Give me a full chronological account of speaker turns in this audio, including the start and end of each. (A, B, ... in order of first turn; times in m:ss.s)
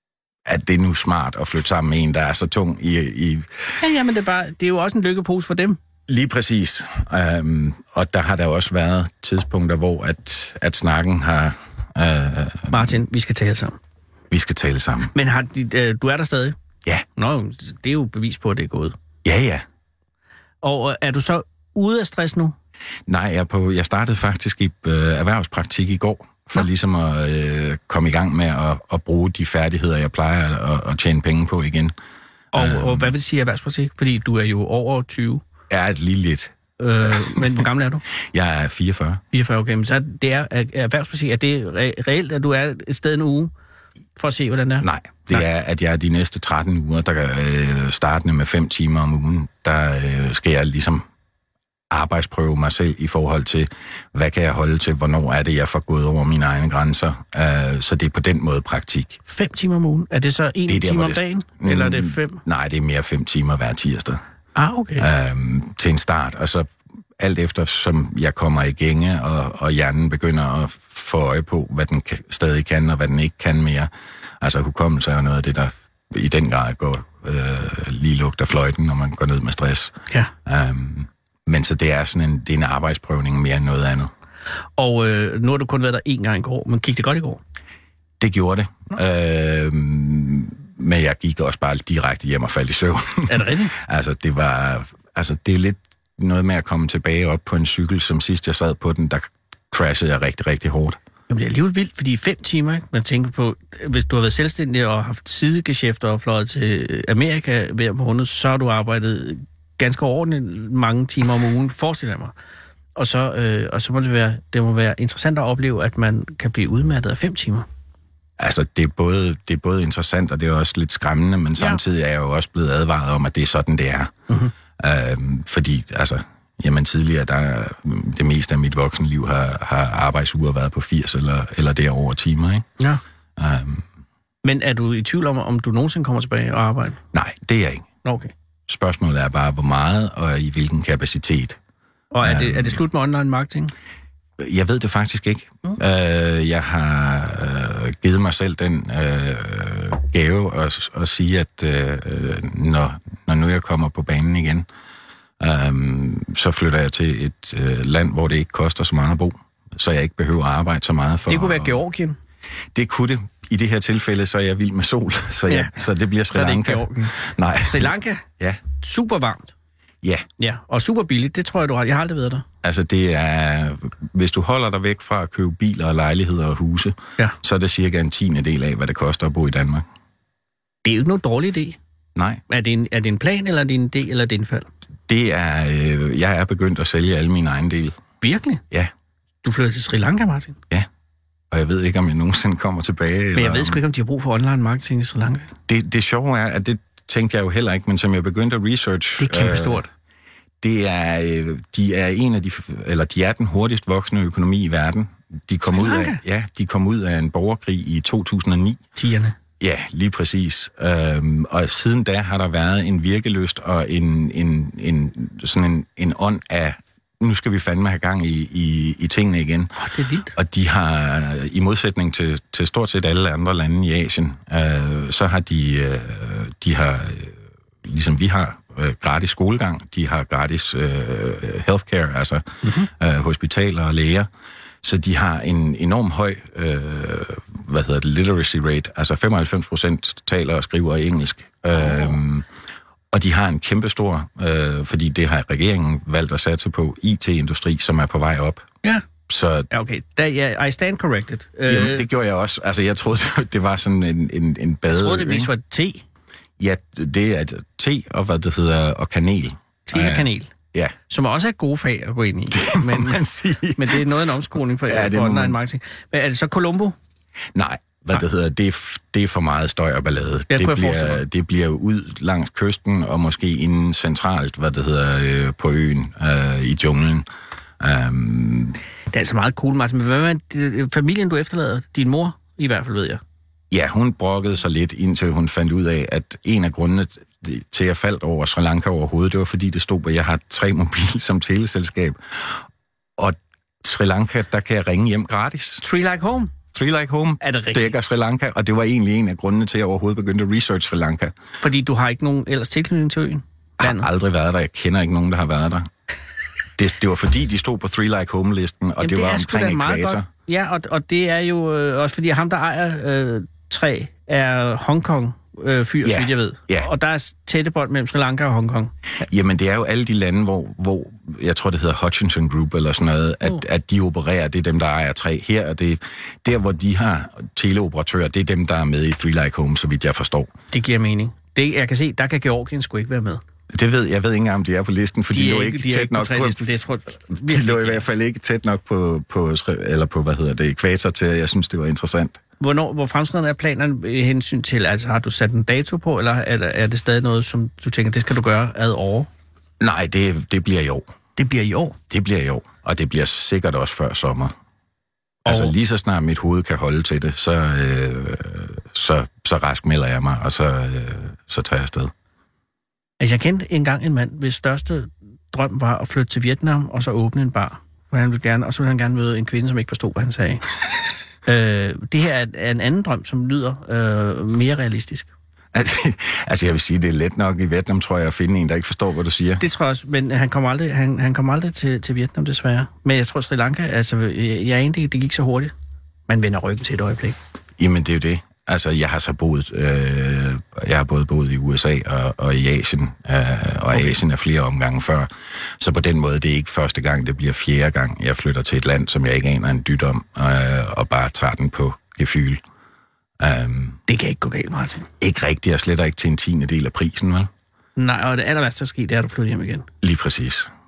0:00.5-0:03.7 A
0:03.8-0:05.8 B
0:06.1-0:12.9 A
0:12.7-0:13.8 B
0:14.3-0:15.1 A
0:15.1-0:16.6 B
0:17.2-0:19.0 B
0:19.2-0:19.6 A
0:20.6-0:22.6 B
0:23.1-0:32.0 A
0:32.5-0:35.4 B
0:32.5-0:33.1 A
0:35.7-0:36.6 A
0:36.8-0:38.0 B
0:37.2-0:37.6 A
0:38.3-0:39.2 A
0:39.3-0:43.5 B
0:44.2-0:45.4 B
0:44.8-0:51.0 A
0:51.9-0:59.2 A
0:59.3-1:02.4 B
1:00.7-1:04.2 A
1:04.6-1:05.1 B
1:05.0-1:06.7 A
1:07.2-1:13.9 A
1:14.4-1:24.1 A
1:24.8-1:27.4 B
1:28.2-1:41.0 A
1:33.3-1:33.7 B
1:41.3-1:52.3 B
1:53.0-1:57.7 B
1:58.4-2:04.1 A
2:04.8-2:12.7 A
2:13.4-2:13.8 A
2:14.4-2:17.0 B
2:17.1-2:17.9 A
2:18.0-2:18.3 B
2:18.7-2:21.6 A
2:22.1-2:23.7 B
2:22.2-2:22.8 A
2:24.4-2:34.7 A
2:35.4-2:41.8 A
2:41.3-2:42.2 B
2:42.7-2:48.6 A
2:45.5-2:49.5 B
2:50.0-2:50.3 A
2:50.4-2:52.4 B
2:52.6-2:59.8 A
3:00.8-3:01.8 B
3:02.2-3:02.4 A
3:02.5-3:04.7 B
3:05.1-3:08.0 A
3:08.2-3:08.6 B
3:09.4-3:10.6 B
3:11.5-3:13.8 A
3:13.4-3:15.5 B
3:15.7-3:19.8 A
3:19.2-3:19.9 B
3:20.6-3:28.8 A
3:25.6-3:26.2 B
3:29.0-3:29.4 B
3:29.6-3:39.7 A
3:39.8-3:40.3 B
3:40.3-3:54.3 A
3:52.6-3:52.9 B
3:54.8-4:02.5 A
4:01.8-4:02.2 B
4:03.1-4:08.7 A
4:09.3-4:09.7 A
4:09.7-4:12.0 B
4:11.7-4:15.5 A
4:14.9-4:16.0 B
4:16.6-4:21.0 A
4:19.9-4:20.5 B
4:21.1-4:23.2 B
4:22.5-4:24.2 A
4:23.8-4:27.0 B
4:24.9-4:25.6 A
4:27.6-4:37.3 A
4:30.5-4:31.2 B
4:37.8-4:38.8 A
4:39.1-4:43.2 B
4:43.7-4:52.6 A
4:53.2-4:55.8 A
4:55.8-4:56.6 B
4:56.7-5:01.3 A
4:57.4-4:57.9 B
5:01.6-5:04.1 B
5:03.8-5:05.9 A
5:06.8-5:10.3 A
5:09.0-5:18.9 B
5:16.0-5:16.9 A
5:19.2-5:30.5 A
5:30.7-5:33.4 B
5:33.7-5:36.7 A
5:35.3-5:38.0 B
5:37.3-5:42.4 A
5:42.6-5:49.3 B
5:49.8-5:51.1 A
5:51.4-5:52.0 B
5:52.1-5:54.5 A
5:55.4-6:02.1 A
5:55.5-5:55.7 B
6:03.2-6:10.7 B
6:11.5-6:15.3 B
6:15.7-6:19.6 A
6:19.6-6:25.7 B
6:26.3-6:27.4 B
6:27.8-6:42.6 A
6:33.9-6:34.2 B
6:43.4-6:44.0 A
6:44.1-6:45.1 B
6:45.2-6:47.5 A
6:48.0-6:49.9 B
6:50.0-6:50.7 A